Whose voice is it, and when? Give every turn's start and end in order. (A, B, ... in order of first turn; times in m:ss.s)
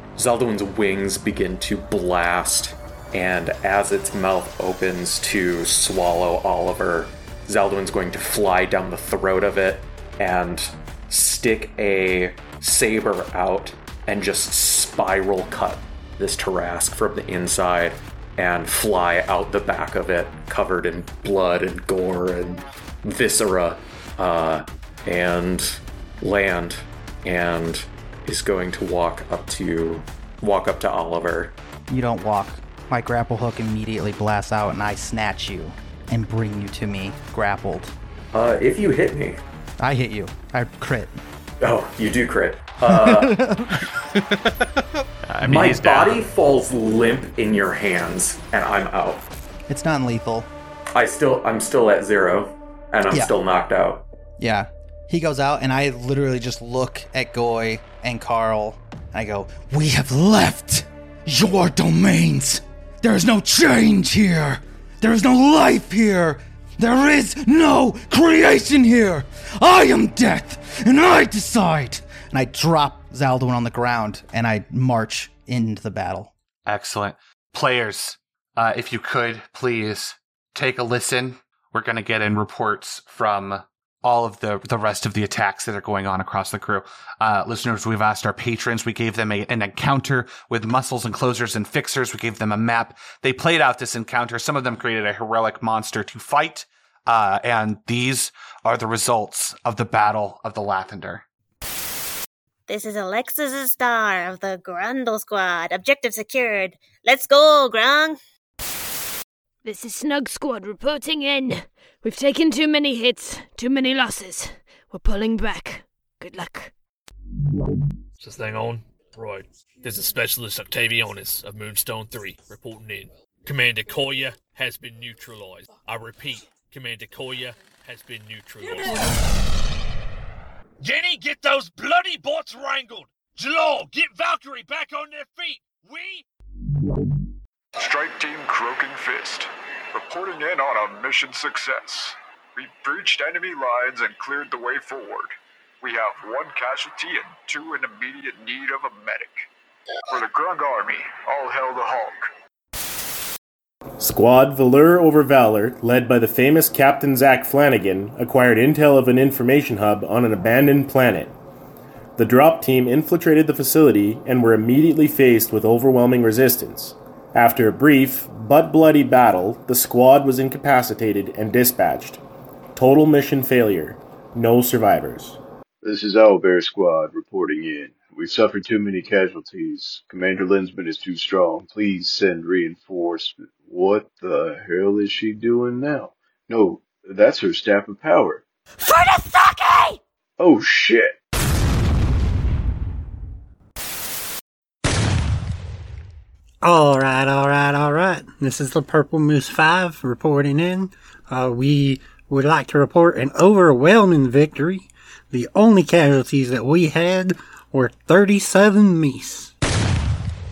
0:00.2-0:31.6 A
0:31.9-0:37.9 B
0:38.3-0:39.4 A
0:39.8-0:41.2 B
0:41.6-0:43.4 A
0:42.9-0:43.8 B
0:45.3-0:46.3 C
0:45.4-0:49.3 A
0:49.7-0:50.5 B
0:50.9-0:54.0 A
0:54.4-1:16.3 B
1:16.7-1:41.2 C
1:42.7-1:48.2 D
1:49.6-1:56.7 E
1:58.2-2:09.2 F
2:10.8-2:16.2 F
2:17.8-2:29.5 G
2:30.1-2:32.3 G
2:34.0-2:41.3 H
2:42.2-2:52.2 H
2:52.7-2:55.4 H
2:55.8-3:08.4 I
3:08.8-3:10.0 E
3:10.4-3:11.2 I
3:16.6-3:29.5 J